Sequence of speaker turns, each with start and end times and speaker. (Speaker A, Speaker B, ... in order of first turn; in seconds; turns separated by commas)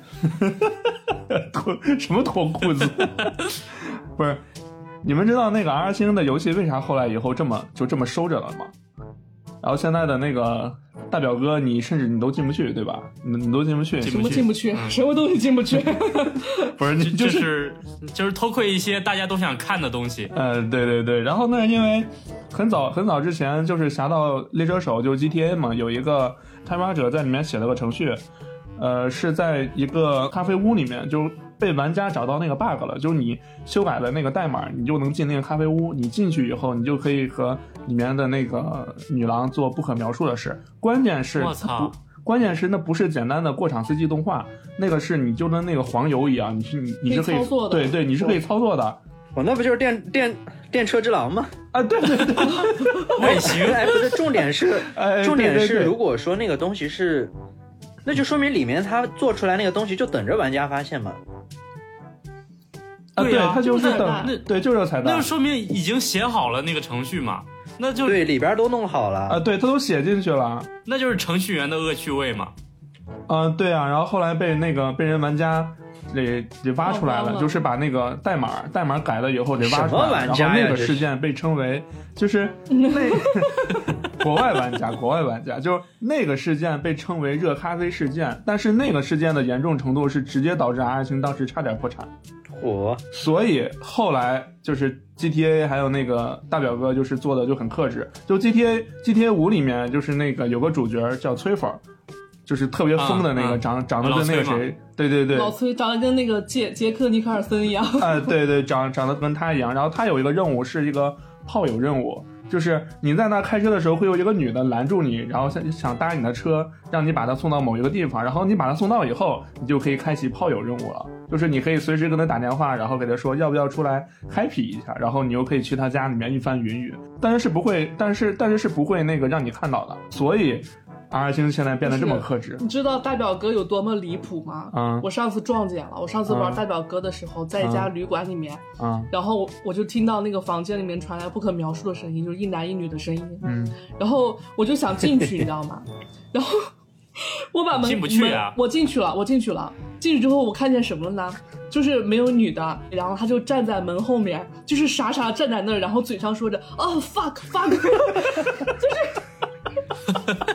Speaker A: 0.2-4.4, Speaker A: 5.0-8.7, Speaker A: 9.6-14.4, Speaker B: 14.0-15.0, Speaker C: 14.0-16.7, Speaker A: 16.8-17.5, Speaker B: 17.0-20.3, Speaker A: 20.3-28.2, Speaker A: 28.8-49.0, Speaker B: 41.4-41.9, Speaker C: 47.1-48.0, Speaker D: 49.3-51.5, Speaker A: 51.7-53.1, Speaker B: 53.0-54.1, Speaker D: 53.2-57.3, Speaker A: 54.9-55.9, Speaker D: 58.0-61.2, Speaker A: 63.1-65.3, Speaker B: 63.2-64.4, Speaker C: 63.6-64.3, Speaker B: 65.0-68.3, Speaker D: 68.0-69.4, Speaker A: 69.3-70.7, Speaker B: 70.8-72.5, Speaker A: 73.3-92.1, Speaker C: 76.8-77.6, Speaker D: 79.6-81.1, Speaker C: 82.7-83.5, Speaker D: 92.5-93.0, Speaker A: 93.1-101.8, Speaker A: 102.5-105.5, Speaker B: 103.0-104.7, Speaker C: 105.3-108.3, Speaker A: 108.0-132.6, Speaker C: 131.8-159.2, Speaker A: 134.7-135.1, Speaker A: 136.3-136.6, Speaker A: 137.6-137.9, Speaker A: 138.8-139.1, Speaker A: 143.4-143.8, Speaker B: 147.7-148.6